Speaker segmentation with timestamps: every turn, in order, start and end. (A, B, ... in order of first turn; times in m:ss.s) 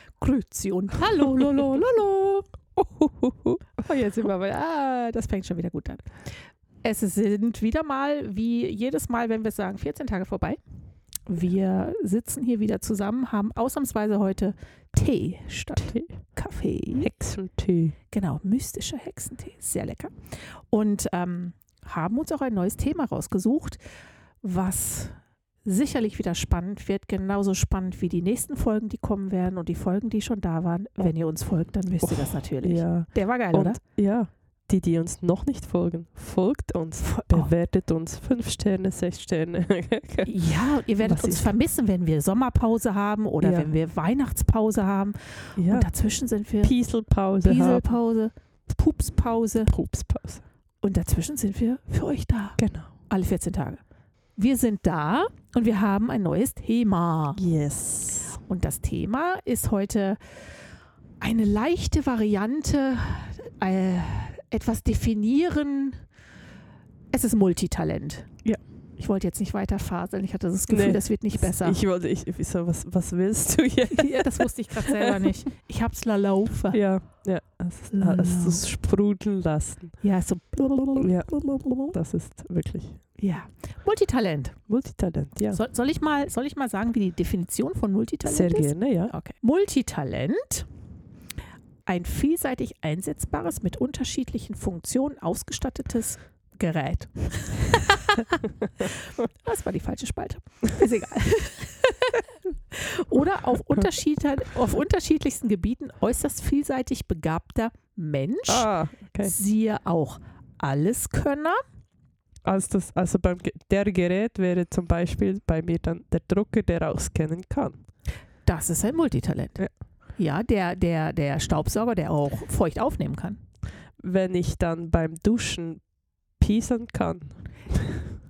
0:00.2-0:02.5 A
0:01.2-0:01.8 B
0:02.8-0:03.6 B
0:03.8-0:06.1 A
0:06.8-0:10.6 A
0:11.3-0:17.1 A
0:15.7-0:16.2 B
0:17.0-0:18.0 B
0:18.1-0:20.1 A
0:20.7-0:23.8 A
0:24.4-0:33.8 A
0:32.0-0:40.3 B
0:37.0-0:37.5 A
0:40.2-0:46.7 A
0:41.0-0:41.5 B
0:43.4-0:43.7 B
0:45.6-0:45.9 B
0:46.6-0:47.9 B
0:47.4-0:49.7 A
0:49.6-0:50.4 B
0:50.8-0:53.8 A
0:52.6-0:52.9 B
0:54.4-0:57.4 A
0:57.4-0:58.4 B
0:58.4-1:00.2 A
1:01.2-1:06.0 A
1:07.1-1:08.3 A
1:09.0-1:11.8 A
1:10.7-1:15.3 B
1:13.9-1:16.8 A
1:16.7-1:20.0 B
1:17.9-1:18.6 A
1:20.0-1:22.0 A
1:21.0-1:23.0 B
1:23.2-1:24.6 A
1:24.7-1:25.6 B
1:25.5-1:30.7 A
1:28.2-1:29.1 B
1:31.8-1:48.7 A
1:48.5-1:49.3 B
1:49.2-1:51.6 A
1:52.4-1:57.8 B
1:58.4-1:59.6 A
2:00.2-2:03.4 A
2:04.0-2:05.8 B
2:06.4-2:08.1 B